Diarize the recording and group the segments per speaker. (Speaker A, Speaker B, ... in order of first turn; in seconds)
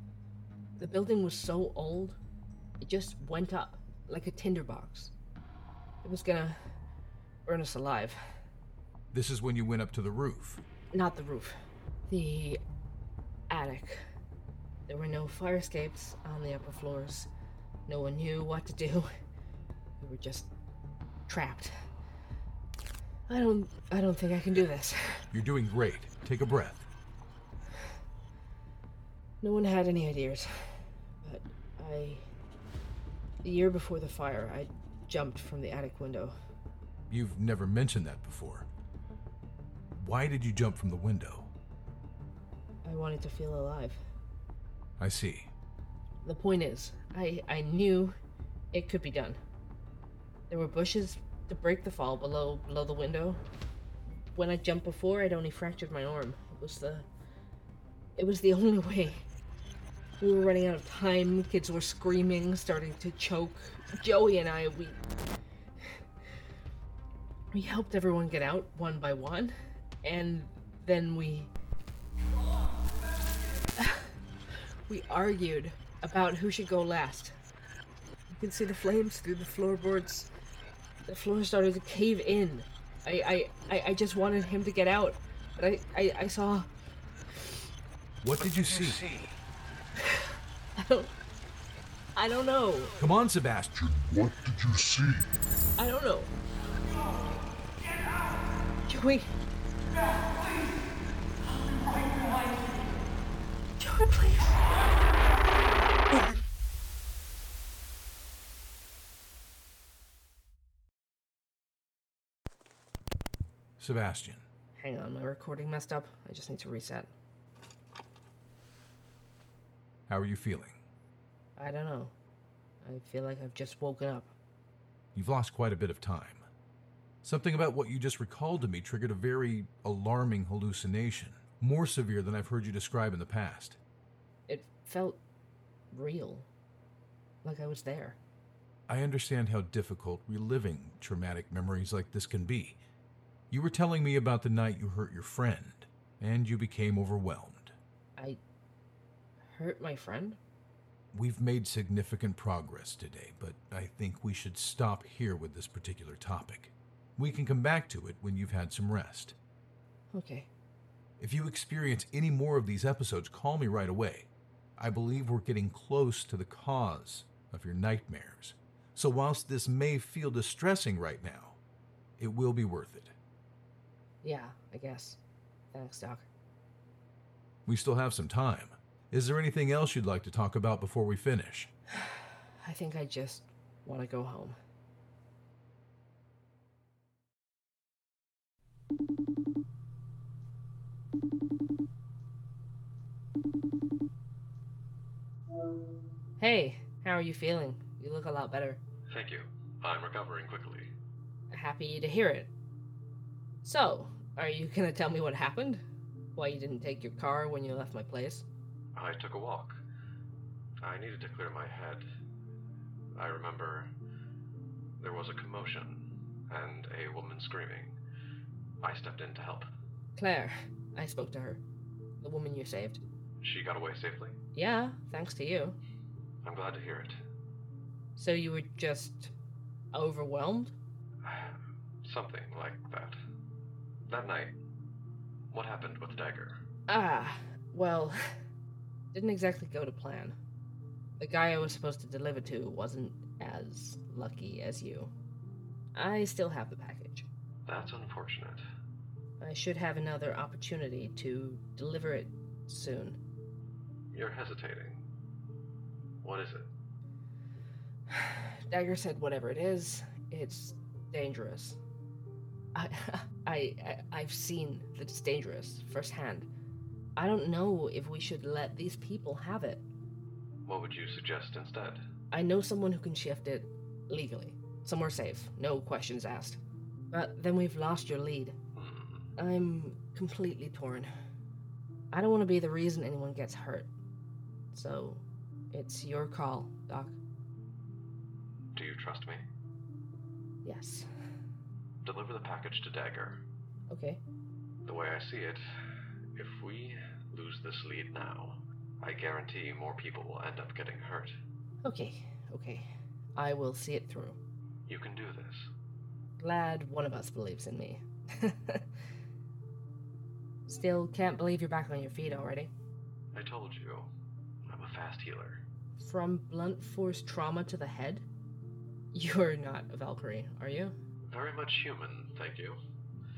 Speaker A: 0.8-2.2, 2.8-5.1, 6.0-6.6, 7.4-8.2, 10.9-12.6, 13.5-14.1, 14.9-17.3, 17.9-19.1, 20.0-20.5, 21.3-21.8, 23.3-25.2, 29.4-32.2, 33.4-36.4, 42.8-44.0, 46.2-48.1, 48.7-49.4, 50.5-53.4, 54.1-57.1, 58.1-59.2, 60.2-65.0, 67.5-71.5, 73.8-74.1, 74.9-77.4, 78.3-80.3, 81.0-86.7, 90.0-91.1, 92.1-92.9, 95.8-96.3, 98.9-99.3, 103.8-104.6, 114.8-117.1, 121.6-122.1, 122.8-124.3, 134.5-135.2, 135.9-136.5, 137.4-138.2, 149.4-150.4, 160.1-160.5, 174.2-175.2, 175.7-176.3, 181.9-184.6, 196.4-198.8, 201.5-202.5, 203.6-205.8, 206.3-208.4, 220.2-221.6, 222.2-223.0, 224.5-225.8, 228.2-229.3, 229.9-230.8, 236.9-238.3, 239.1-240.4, 241.2-245.1, 245.9-247.3, 249.4-253.2, 258.1-261.8, 262.7-266.5, 267.1-269.8, 272.3-276.6, 277.1-278.6, 279.4-281.1, 282.1-283.9, 284.7-287.2, 290.6-291.1, 293.9-294.2, 301.8-304.4, 306.4-308.9, 310.7-312.7, 316.0-318.2, 319.1-320.9
Speaker B: 9.1-10.6, 25.3-26.9, 37.1-38.7, 39.9-41.5, 45.0-45.5, 88.2-89.3, 93.0-94.1, 113.8-114.4, 120.1-120.8, 125.1-126.4, 127.2-133.8, 138.9-142.8, 143.5-147.8, 151.1-159.4, 161.2-171.6, 172.2-173.1, 177.7-181.7
Speaker C: 199.1-200.9, 208.9-209.8, 210.8-212.1, 213.2-213.9, 215.0-218.0, 218.8-219.7, 223.4-224.4, 226.4-227.2, 231.2-233.2, 234.1-234.6, 235.5-236.6, 247.7-248.6, 254.1-255.0, 256.2-256.7, 270.6-272.0, 278.8-279.3, 288.8-289.4, 292.0-293.4, 294.9-295.6, 296.4-301.4, 304.9-305.7, 313.3-314.1, 314.7-315.6, 321.3-322.8